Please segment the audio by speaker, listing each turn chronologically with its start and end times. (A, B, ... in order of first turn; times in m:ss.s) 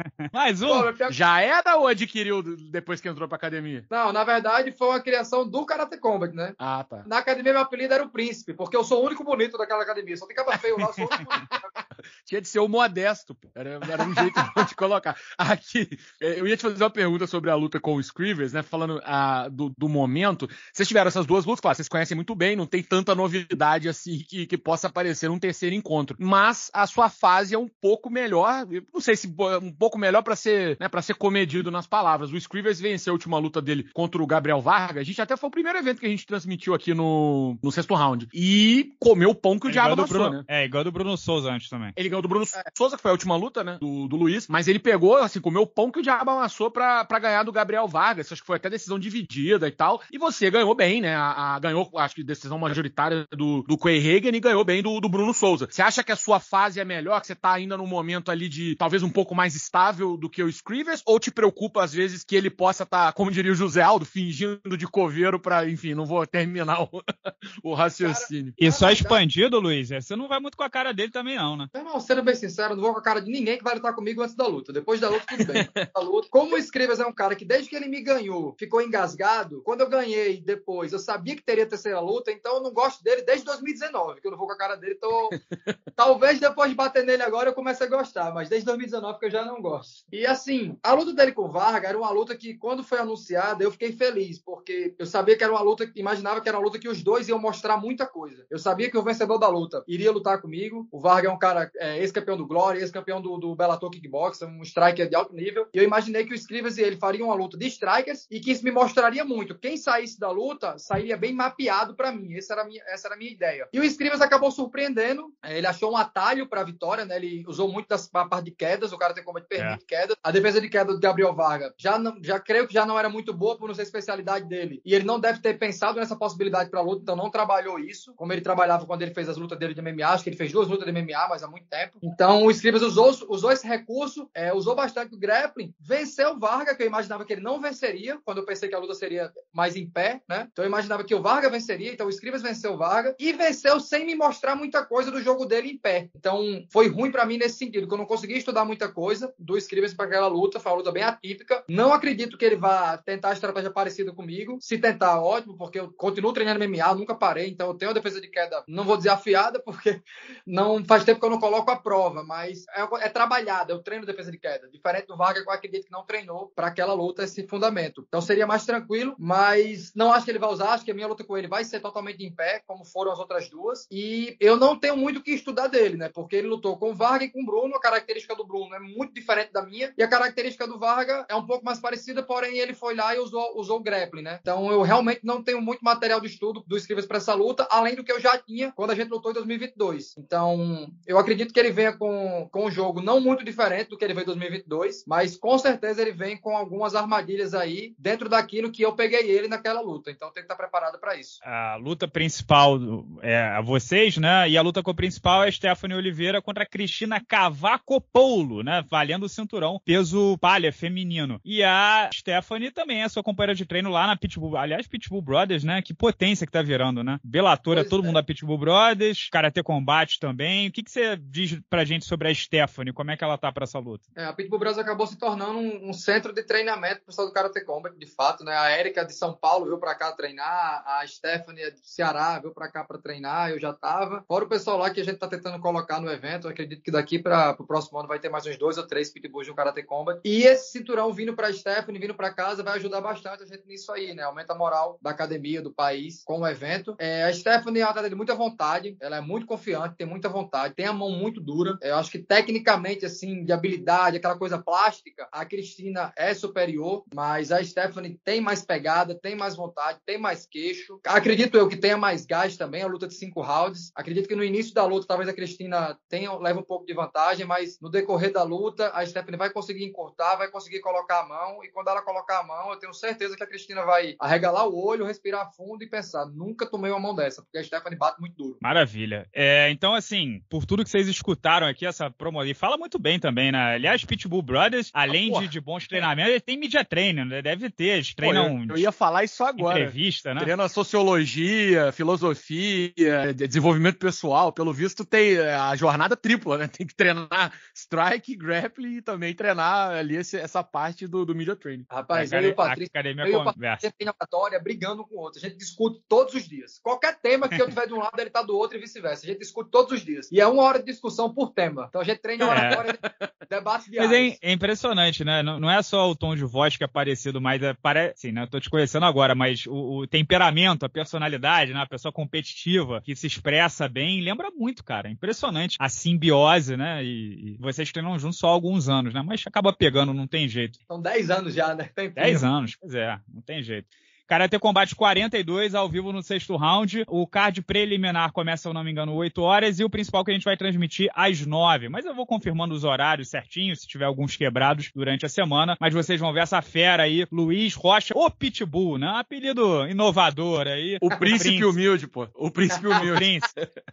0:00.3-0:00.9 A
0:00.7-0:01.2 B
0:01.1-0:03.9 C
0:03.9-0:11.7 B
0:06.6-0:07.1 C
0:11.1-0:40.4 C
0:39.7-0:42.0 A
0:42.0-1:07.0 C
1:07.6-1:08.6 C
1:08.0-1:09.2 B
1:08.6-1:11.7 A
1:11.7-1:25.4 B
1:15.3-1:15.9 C
1:25.3-1:25.7 C
1:26.0-3:21.4 B
3:21.4-3:44.0 A
3:37.7-3:38.2 B
3:44.2-4:38.6 B
4:38.6-4:48.8 A
4:45.1-4:46.1 C
4:48.2-5:01.9 C
4:49.6-4:50.5 A
5:01.9-5:14.4 B
5:02.1-5:03.9 A
5:12.4-5:13.3 C
5:12.5-5:12.8 A
5:14.0-5:30.8 A
5:30.9-5:32.5 B
5:32.2-5:51.7 A
5:51.1-5:53.3 C
5:53.0-5:53.5 A